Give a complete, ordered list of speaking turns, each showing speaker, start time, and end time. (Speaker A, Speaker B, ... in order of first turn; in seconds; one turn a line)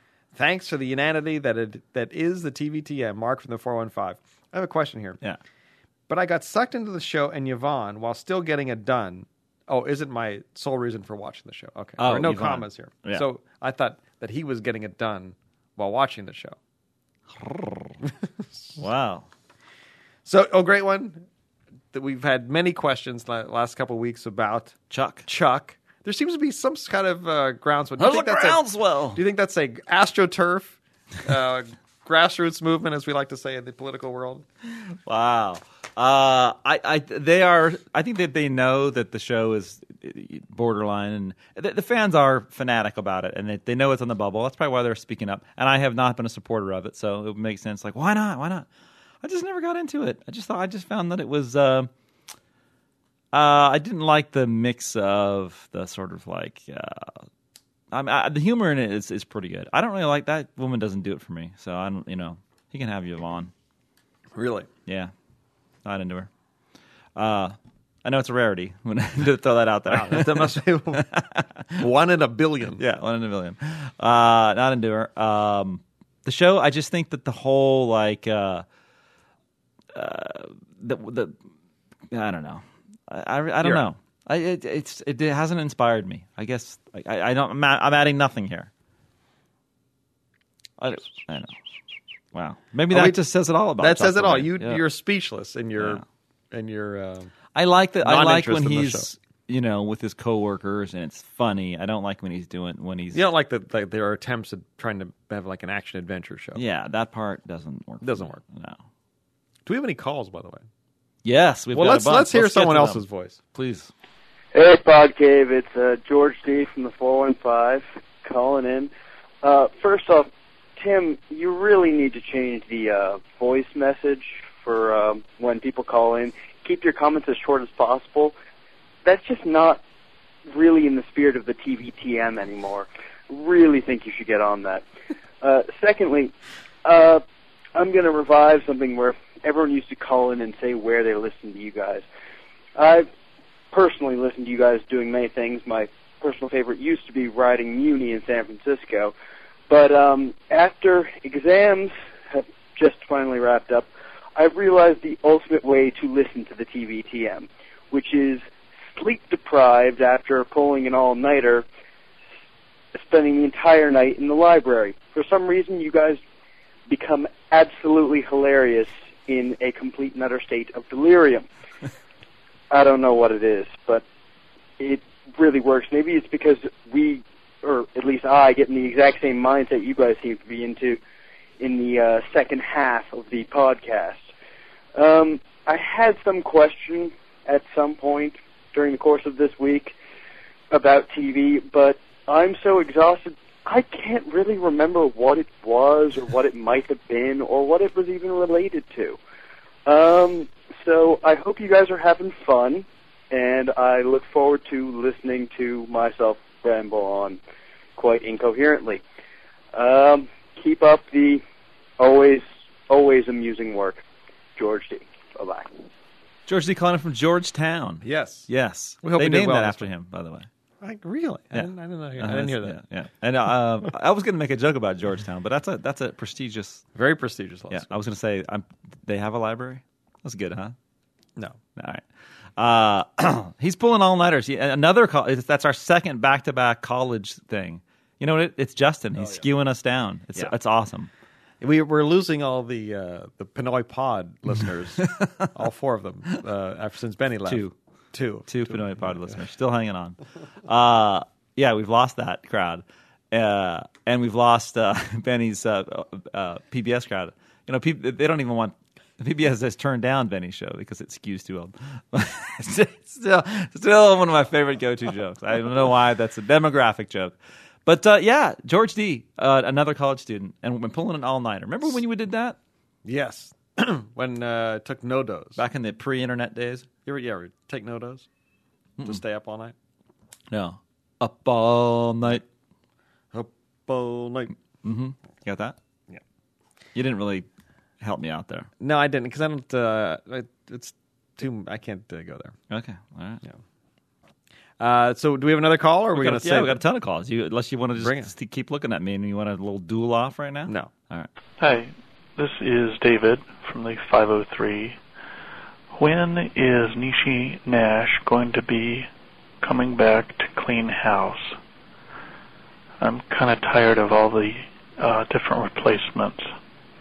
Speaker A: 0.3-5.2
Speaker A: 6.1-16.6
Speaker B: 12.0-13.2
Speaker B: 17.3-18.0
Speaker B: 18.8-19.3
Speaker A: 20.2-21.2
Speaker A: 21.9-28.6
Speaker B: 24.9-25.2
Speaker B: 28.0-29.2
Speaker A: 29.1-34.4
Speaker B: 34.9-48.7
Speaker B: 49.2-51.9
Speaker B: 53.3-57.3
Speaker B: 57.9-63.5
Speaker A: 64.3-64.7
Speaker B: 64.8-65.1
Speaker B: 65.8-66.3
Speaker B: 67.2-71.8
Speaker A: 69.9-71.1
Speaker A: 71.8-72.8
Speaker B: 72.8-78.6
Speaker B: 79.9-81.4
Speaker B: 82.1-88.7
Speaker A: 83.6-83.9
Speaker B: 90.8-91.5
Speaker B: 92.3-94.8
Speaker A: 92.9-93.2
Speaker A: 93.8-97.3
Speaker B: 97.5-103.2
Speaker A: 98.0-99.0
Speaker A: 103.1-106.6
Speaker B: 106.5-108.8
Speaker A: 108.0-108.4
Speaker A: 109.7-110.6
Speaker B: 111.2-113.0
Speaker A: 111.7-113.4
Speaker B: 113.5-113.9
Speaker C: 114.5-118.9
Speaker C: 119.4-128.3
Speaker C: 129.0-129.8
Speaker C: 130.5-134.8
Speaker C: 135.4-136.3
Speaker C: 136.8-137.2
Speaker C: 137.7-142.0
Speaker C: 142.8-143.1
Speaker C: 143.7-149.1
Speaker C: 149.7-158.4
Speaker C: 158.9-161.7
Speaker C: 162.9-166.2
Speaker C: 166.9-171.4
Speaker C: 172.7-174.0
Speaker C: 174.8-181.0
Speaker C: 181.6-184.2
Speaker C: 184.9-189.9
Speaker C: 190.7-199.2
Speaker C: 199.8-207.4
Speaker C: 207.9-209.0
Speaker C: 209.7-211.4
Speaker C: 212.0-214.0
Speaker C: 214.6-215.7
Speaker B: 216.5-220.5
Speaker A: 218.0-218.5
Speaker A: 219.0-219.9
Speaker A: 220.8-222.8
Speaker B: 221.5-226.8
Speaker A: 226.9-227.9
Speaker B: 227.7-230.7
Speaker B: 231.7-232.0
Speaker B: 232.6-241.1
Speaker A: 241.6-249.3
Speaker B: 245.0-245.5
Speaker B: 247.4-247.7
Speaker B: 248.5-272.6
Speaker A: 273.0-275.6
Speaker B: 275.6-276.9
Speaker A: 277.0-278.3
Speaker A: 279.0-279.7
Speaker B: 280.5-282.4
Speaker A: 283.3-284.5
Speaker B: 284.8-285.8
Speaker B: 286.9-287.5
Speaker B: 288.0-288.7
Speaker A: 288.8-292.6
Speaker B: 292.7-293.4
Speaker A: 294.8-296.8
Speaker B: 296.1-301.3
Speaker A: 298.0-298.3
Speaker D: 301.6-305.0
Speaker D: 305.9-309.1
Speaker D: 309.6-311.6
Speaker D: 313.0-316.5